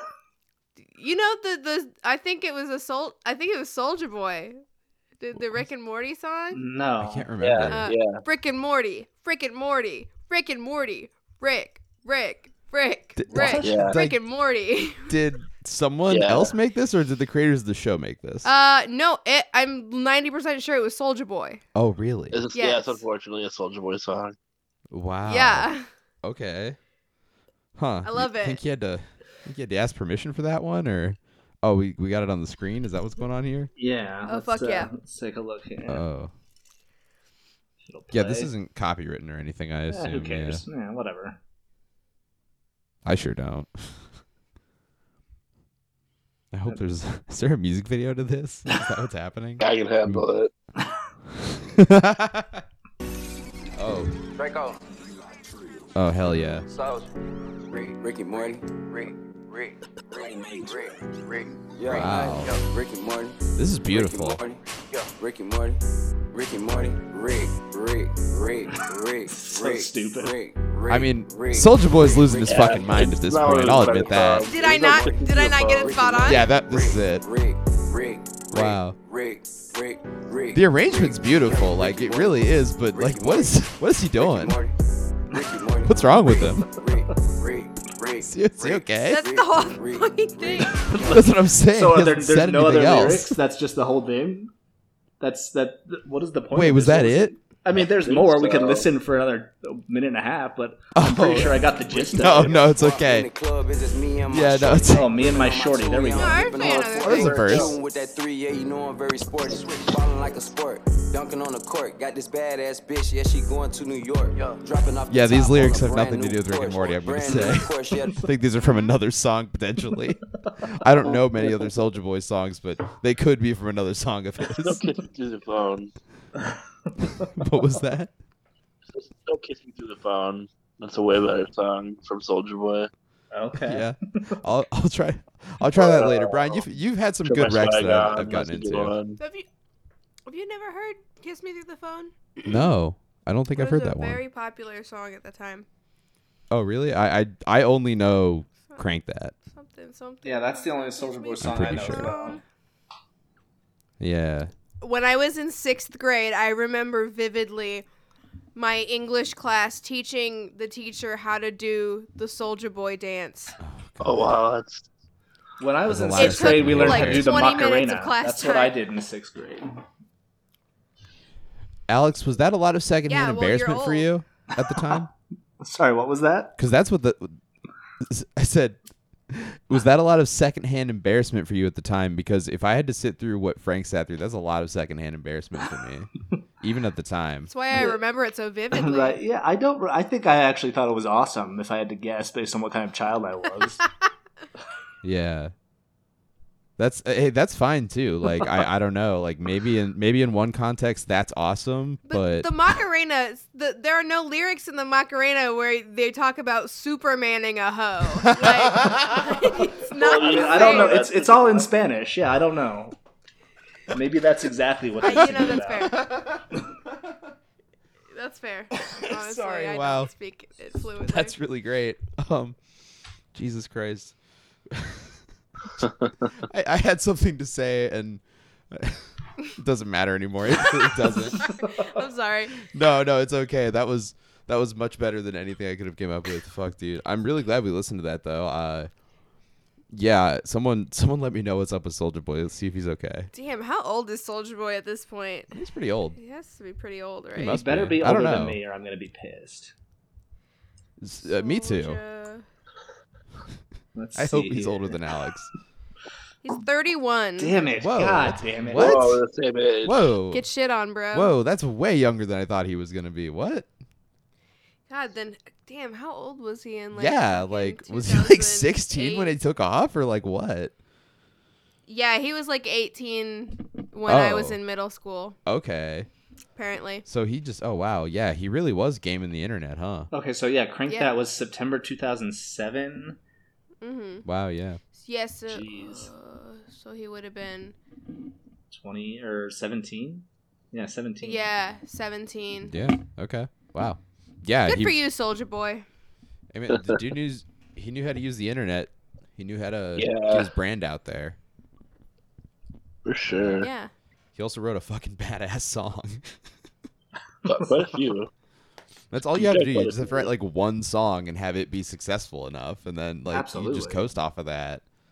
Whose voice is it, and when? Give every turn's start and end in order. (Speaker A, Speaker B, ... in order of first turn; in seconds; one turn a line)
Speaker A: 0.9-4.6
Speaker A: 5.2-6.6
Speaker B: 6.5-7.3
Speaker C: 7.0-7.9
Speaker D: 7.4-8.2
Speaker A: 7.7-15.1
Speaker C: 13.2-14.2
Speaker B: 13.3-13.9
Speaker D: 13.6-13.9
Speaker C: 15.1-18.5
Speaker D: 16.1-16.5
Speaker A: 18.4-21.6
Speaker C: 21.8-22.4
Speaker D: 22.3-24.4
Speaker A: 22.5-23.0
Speaker C: 24.9-25.7
Speaker A: 25.2-25.9
Speaker C: 26.2-26.8
Speaker C: 27.8-33.7
Speaker A: 28.0-28.6
Speaker B: 33.8-36.0
Speaker A: 34.3-34.9
Speaker C: 35.9-36.3
Speaker B: 37.9-38.5
Speaker C: 38.1-40.6
Speaker B: 39.9-41.4
Speaker C: 43.0-44.0
Speaker C: 46.5-50.2
Speaker D: 49.6-50.5
Speaker C: 51.4-52.6
Speaker C: 53.8-54.2
Speaker E: 54.3-54.8
Speaker C: 56.0-56.7
Speaker E: 56.7-57.1
Speaker E: 57.7-65.8
Speaker C: 61.9-62.5
Speaker C: 63.6-64.4
Speaker E: 66.3-73.0
Speaker B: 69.3-70.3
Speaker C: 70.9-74.5
Speaker D: 72.5-76.2
Speaker A: 74.5-76.5
Speaker E: 74.6-82.4
Speaker C: 76.3-77.2
Speaker C: 78.5-79.0
Speaker C: 80.5-84.6
Speaker E: 82.9-83.5
Speaker E: 84.2-84.8
Speaker E: 85.3-91.3
Speaker C: 85.9-86.7
Speaker C: 88.3-89.2
Speaker A: 89.1-90.9
Speaker B: 90.9-94.5
Speaker C: 91.0-93.4
Speaker B: 95.2-102.6
Speaker C: 96.5-97.4
Speaker D: 97.7-98.9
Speaker C: 101.0-103.3
Speaker E: 102.2-118.3
Speaker C: 104.3-105.1
Speaker B: 104.9-106.5
Speaker A: 106.1-107.4
Speaker D: 106.6-107.7
Speaker C: 107.0-107.8
Speaker C: 115.1-124.8
Speaker A: 118.6-118.9
Speaker D: 124.6-125.9
Speaker C: 127.2-128.1
Speaker D: 128.9-132.9
Speaker B: 133.3-133.9
Speaker C: 133.6-138.9
Speaker D: 135.7-136.7
Speaker D: 137.2-139.2
Speaker A: 139.2-139.5
Speaker A: 140.3-142.7
Speaker C: 142.4-144.2
Speaker A: 143.6-145.7
Speaker C: 146.5-149.3
Speaker A: 149.4-152.4
Speaker B: 150.2-152.4
Speaker C: 151.4-152.1
Speaker C: 154.0-154.5
Speaker A: 154.8-157.8
Speaker A: 158.6-163.6
Speaker C: 163.6-164.3
Speaker D: 164.0-164.9
Speaker B: 165.6-169.7
Speaker C: 165.9-167.4
Speaker A: 166.2-168.8
Speaker C: 171.9-175.1
Speaker A: 173.1-174.1
Speaker B: 174.6-175.1
Speaker B: 175.6-176.6
Speaker C: 176.6-177.4
Speaker C: 178.0-178.8
Speaker C: 179.3-187.5
Speaker A: 187.5-189.2
Speaker B: 187.7-188.0
Speaker B: 188.7-193.8
Speaker C: 195.0-195.5
Speaker C: 196.8-202.5
Speaker A: 202.1-211.1
Speaker C: 208.3-209.4
Speaker D: 209.9-211.8
Speaker B: 210.0-213.0
Speaker B: 213.9-216.0
Speaker A: 215.0-216.1
Speaker C: 215.4-216.4
Speaker A: 218.1-221.3
Speaker C: 219.4-220.1
Speaker C: 221.0-222.6
Speaker C: 223.3-224.2
Speaker C: 224.7-225.1
Speaker C: 225.8-231.5
Speaker A: 230.6-232.6
Speaker B: 231.5-231.9
Speaker C: 232.6-238.9
Speaker C: 239.9-243.3
Speaker A: 243.3-245.5
Speaker C: 245.5-246.2
Speaker A: 246.2-247.6
Speaker C: 247.4-248.6
Speaker B: 247.4-249.7
Speaker C: 251.0-252.0
Speaker A: 251.2-252.4
Speaker B: 253.9-255.0
Speaker C: 254.2-255.5
Speaker A: 256.4-257.6
Speaker B: 257.4-259.2
Speaker C: 257.8-259.2
Speaker D: 258.7-260.1
Speaker C: 259.8-260.4
Speaker A: 260.3-261.3
Speaker C: 261.1-263.7
Speaker A: 264.9-269.4
Speaker C: 266.9-270.7
Speaker A: 271.9-275.4
Speaker C: 274.1-274.6
Speaker C: 275.5-276.1
Speaker A: 276.6-277.0
Speaker C: 277.1-280.1
Speaker B: 280.1-283.2
Speaker A: 283.8-284.2
Speaker C: 284.2-284.8
Speaker A: 285.0-287.8
Speaker B: 285.5-286.1
Speaker B: 288.7-291.4
Speaker A: 291.2-292.7
Speaker C: 292.7-295.0
Speaker A: 294.7-295.9
Speaker C: 296.5-301.4
Speaker D: 296.7-297.0
Speaker D: 300.0-300.5
Speaker D: 303.1-303.7
Speaker C: 303.3-303.6
Speaker A: 303.6-303.9
Speaker C: 304.4-306.4
Speaker D: 307.5-308.3
Speaker C: 309.1-314.8
Speaker D: 309.4-310.3
Speaker B: 313.3-314.0